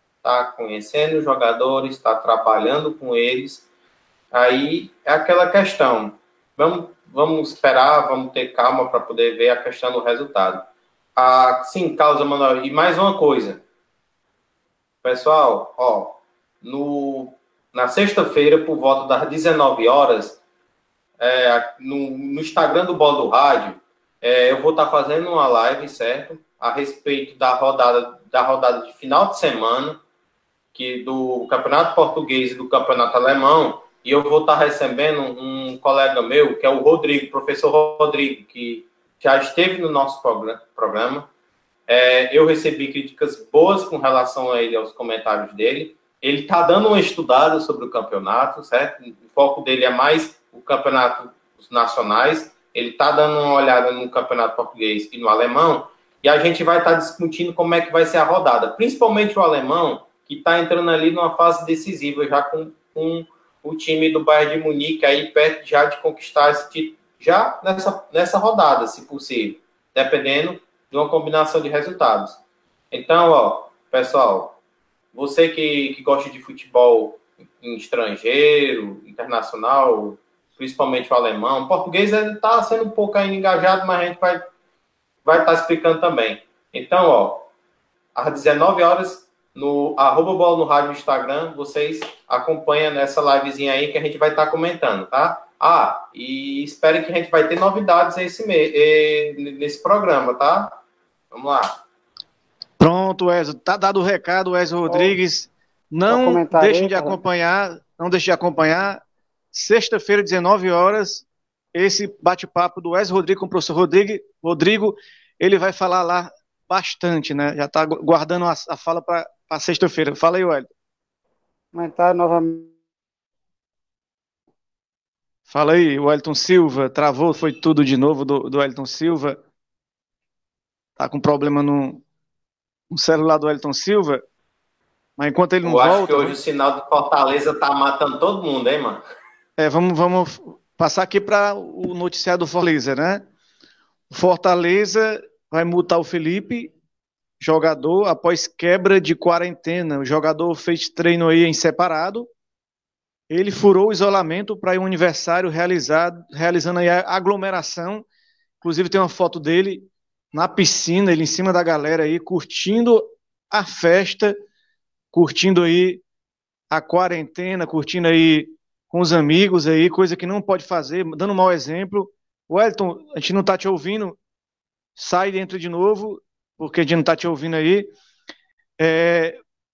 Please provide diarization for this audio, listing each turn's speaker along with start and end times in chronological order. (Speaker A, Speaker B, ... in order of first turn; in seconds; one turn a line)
Speaker A: 0.2-3.6
Speaker A: 4.3-13.6
Speaker A: 15.0-20.4
Speaker A: 21.2-30.0
Speaker A: 30.7-41.3
Speaker A: 41.9-72.4
Speaker A: 72.9-74.6
Speaker A: 75.1-84.4
Speaker A: 85.2-87.5
Speaker A: 88.1-100.8
Speaker A: 101.3-101.7
Speaker B: 102.8-109.0
Speaker C: 104.9-105.2
Speaker C: 106.1-107.2
Speaker B: 109.5-120.7
Speaker C: 121.7-122.7
Speaker B: 125.5-129.4
Speaker B: 131.0-132.0
Speaker B: 132.9-134.2
Speaker B: 135.2-136.3
Speaker A: 135.6-139.0
Speaker B: 139.6-143.3
Speaker B: 144.1-146.7
Speaker B: 147.4-152.3
Speaker B: 153.3-158.0
Speaker B: 158.6-164.4
Speaker B: 165.1-166.0
Speaker B: 166.7-174.2
Speaker B: 175.0-177.9
Speaker B: 178.8-179.4